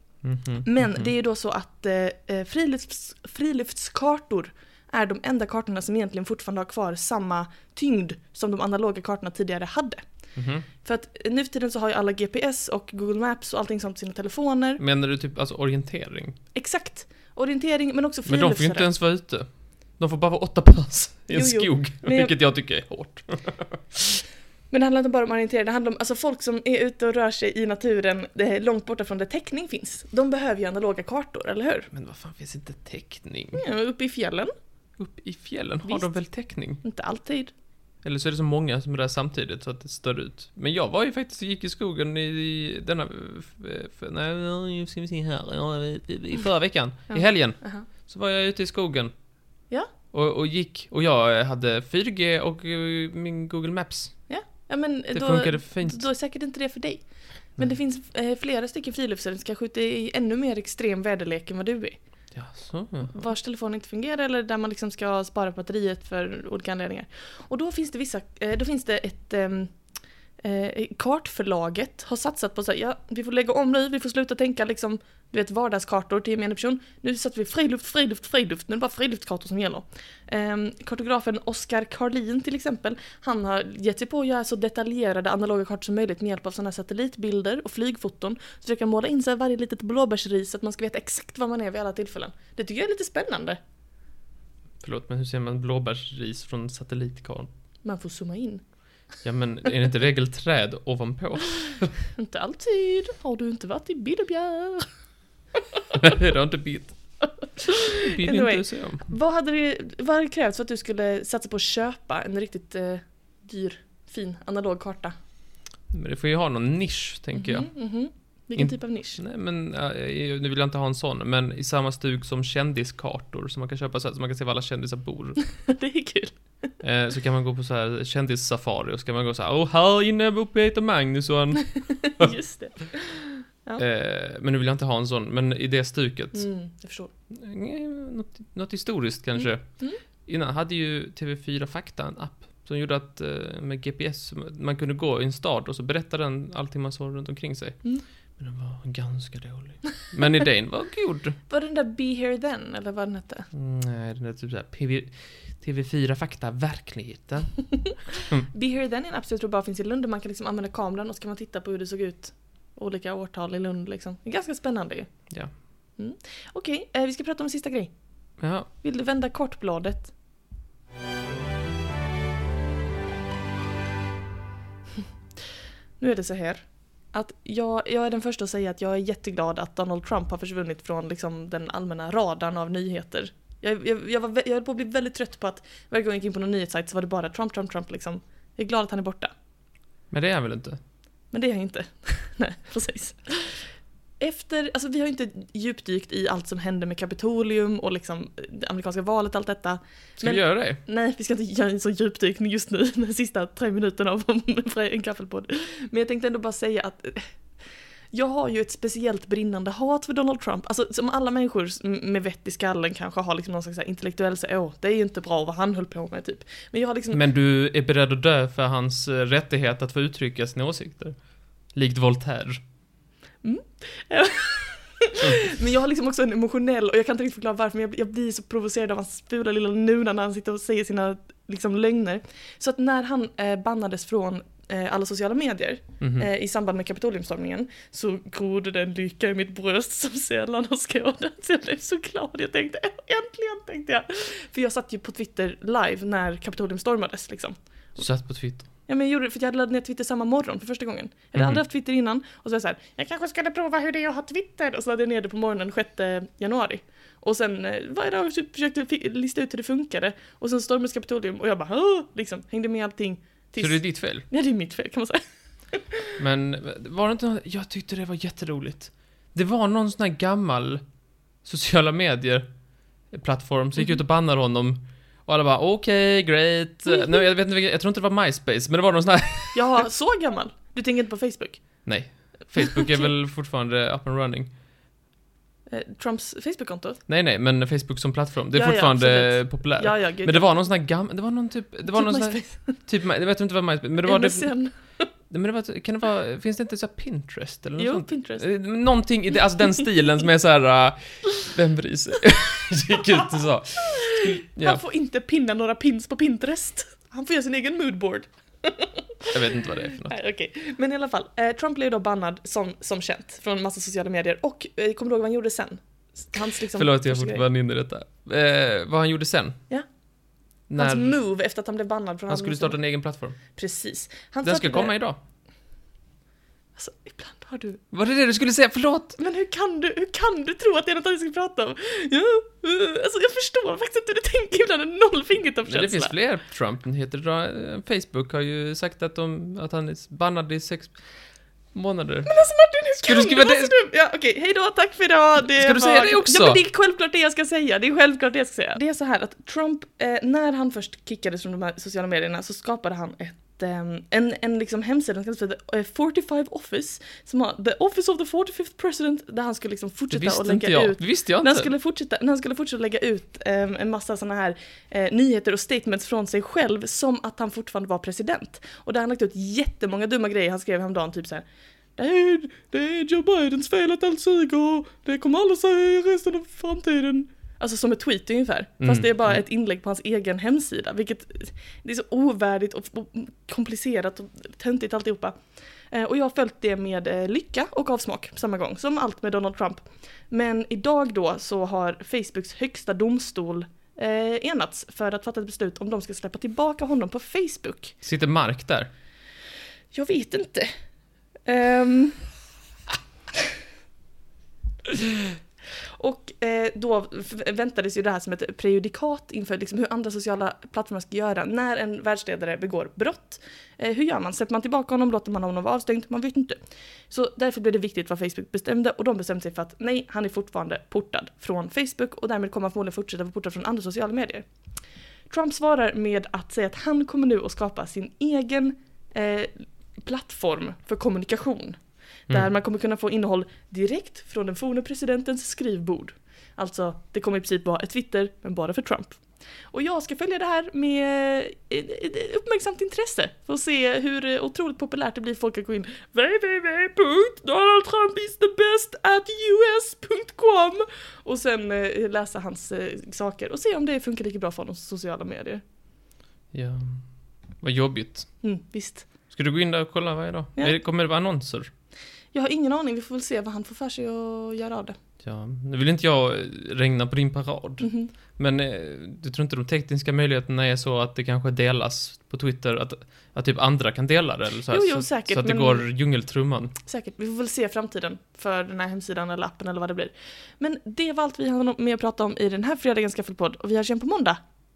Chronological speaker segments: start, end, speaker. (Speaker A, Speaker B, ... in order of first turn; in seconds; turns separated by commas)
Speaker A: 0.2-1.1, Speaker B: 0.6-10.0, Speaker A: 10.3-10.7, Speaker B: 10.8-14.8, Speaker A: 14.8-16.4, Speaker B: 16.5-18.9, Speaker A: 18.2-24.0, Speaker B: 21.3-22.4, Speaker B: 24.7-31.9, Speaker A: 31.9-33.6, Speaker B: 33.5-34.5, Speaker A: 35.0-36.8, Speaker B: 35.8-36.1, Speaker B: 36.8-37.5, Speaker A: 38.0-49.1, Speaker B: 47.1-47.9, Speaker A: 50.1-54.1, Speaker B: 54.3-62.0, Speaker A: 55.1-56.0, Speaker A: 62.3-63.2, Speaker B: 63.1-69.7, Speaker B: 70.4-93.6, Speaker A: 94.8-97.5, Speaker B: 97.8-98.6, Speaker A: 99.2-102.0, Speaker B: 102.2-104.9, Speaker A: 105.9-107.0, Speaker B: 107.4-115.1, Speaker A: 107.8-109.1, Speaker A: 115.9-117.7, Speaker B: 117.3-119.2, Speaker A: 118.5-125.4, Speaker B: 125.5-126.4, Speaker A: 126.8-132.3, Speaker B: 132.0-133.8, Speaker A: 133.8-136.4, Speaker B: 136.3-137.1, Speaker A: 137.3-139.7, Speaker A: 140.2-147.8, Speaker A: 148.4-151.4, Speaker B: 151.5-153.5, Speaker A: 153.5-157.6, Speaker B: 157.7-165.1, Speaker B: 166.0-167.9, Speaker A: 168.4-168.7, Speaker B: 168.8-170.1, Speaker B: 176.0-189.3, Speaker A: 190.1-190.8, Speaker B: 191.3-207.3, Speaker A: 200.2-200.8, Speaker B: 208.1-217.2, Speaker A: 217.1-221.1, Speaker A: 221.7-222.6, Speaker B: 223.4-247.6, Speaker A: 236.0-236.3, Speaker A: 247.9-248.7, Speaker B: 248.9-266.1, Speaker A: 263.6-264.2, Speaker A: 266.2-270.8, Speaker A: 271.4-272.5, Speaker A: 273.1-279.7, Speaker B: 279.5-281.6, Speaker A: 281.9-284.5, Speaker B: 282.6-283.1, Speaker B: 285.7-287.0, Speaker A: 287.1-294.5, Speaker B: 288.5-290.5, Speaker B: 291.9-292.8, Speaker B: 294.0-295.1, Speaker A: 295.3-304.8, Speaker B: 297.8-298.4, Speaker B: 303.8-317.4, Speaker A: 309.3-310.1, Speaker A: 316.7-319.6, Speaker A: 320.7-321.1, Speaker B: 320.8-322.8, Speaker A: 322.3-323.4, Speaker B: 323.5-324.9, Speaker A: 324.4-325.2, Speaker B: 326.8-327.8, Speaker A: 327.9-329.2, Speaker B: 329.2-336.1, Speaker A: 335.6-341.0, Speaker A: 341.7-342.3, Speaker B: 342.2-371.4, Speaker A: 343.0-343.8, Speaker A: 345.4-346.6, Speaker A: 360.1-361.7, Speaker B: 371.9-385.4, Speaker A: 378.8-379.4, Speaker B: 385.9-397.9, Speaker A: 398.0-398.9, Speaker B: 399.9-400.7, Speaker B: 401.4-402.2, Speaker B: 404.9-405.3, Speaker B: 405.8-416.6, Speaker B: 417.1-424.4, Speaker B: 425.3-455.6, Speaker A: 456.5-457.0, Speaker A: 457.6-458.3, Speaker B: 458.4-459.1, Speaker A: 459.3-461.7, Speaker B: 462.3-465.0, Speaker A: 465.2-476.7, Speaker B: 467.8-468.1, Speaker B: 474.7-475.9, Speaker B: 476.9-484.4